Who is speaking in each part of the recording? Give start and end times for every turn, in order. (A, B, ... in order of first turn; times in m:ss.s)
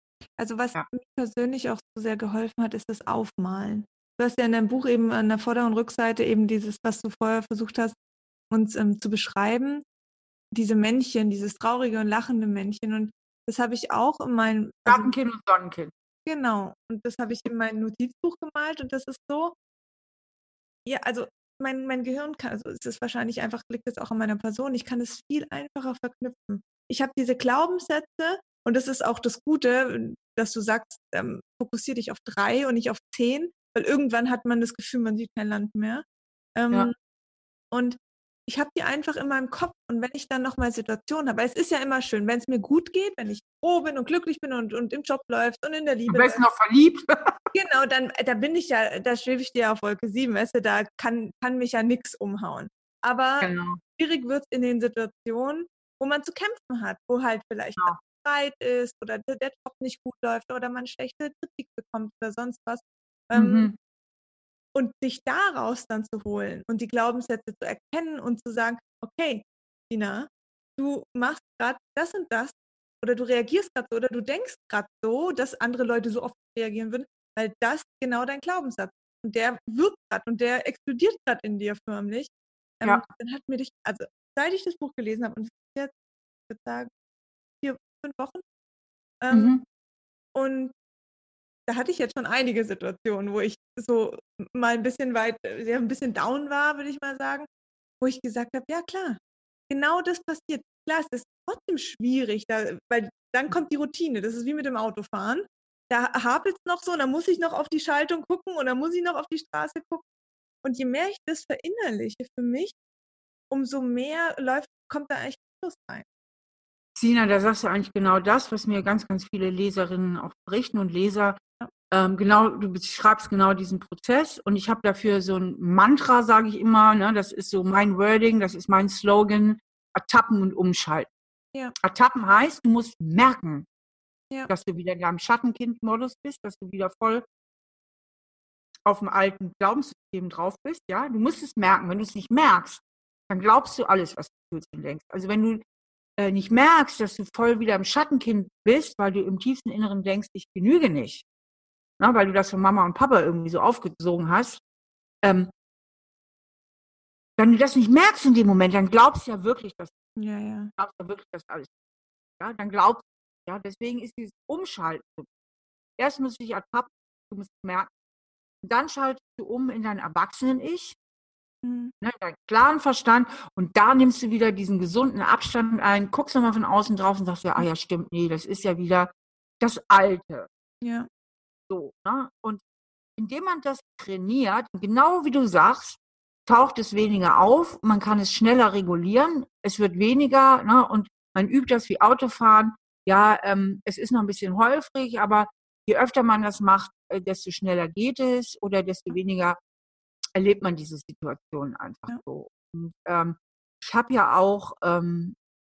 0:00.4-0:07.9 A
0:08.5-0:09.8 A
0:10.5-0:15.1 A
0:14.8-0:15.9 B
0:16.2-0:19.5 A
0:20.8-0:36.0 A
0:36.6-0:36.9 A
0:37.7-0:46.4 A
0:46.1-0:47.4 B
0:47.5-1:03.7 A
0:53.4-0:53.8 B
1:03.3-1:03.8 B
1:04.7-1:25.9 A
1:26.5-1:26.9 A
1:27.6-1:28.4 A
1:29.2-1:29.6 A
1:29.3-1:29.6 B
1:30.3-1:30.7 A
1:31.7-1:37.5 A
1:38.0-1:50.0 A
1:50.6-1:52.8 A
1:53.5-1:56.0 A
1:57.0-2:01.4 B
2:01.9-2:11.1 B
2:11.8-2:13.6 B
2:14.5-2:17.2 B
2:18.8-2:25.6 B
2:26.2-2:31.2 B
2:32.0-2:34.6 B
2:35.2-2:35.5 B
2:37.4-2:39.9 B
2:40.2-2:40.7 A
2:40.8-2:41.7 B
2:42.4-2:45.3 B
2:46.0-2:47.9 B
2:48.6-2:51.0 B
2:51.6-2:51.9 A
2:52.0-3:00.5 B
3:00.8-3:01.1 A
3:01.7-3:02.6 B
3:03.2-3:19.6 B
3:20.4-3:25.4 B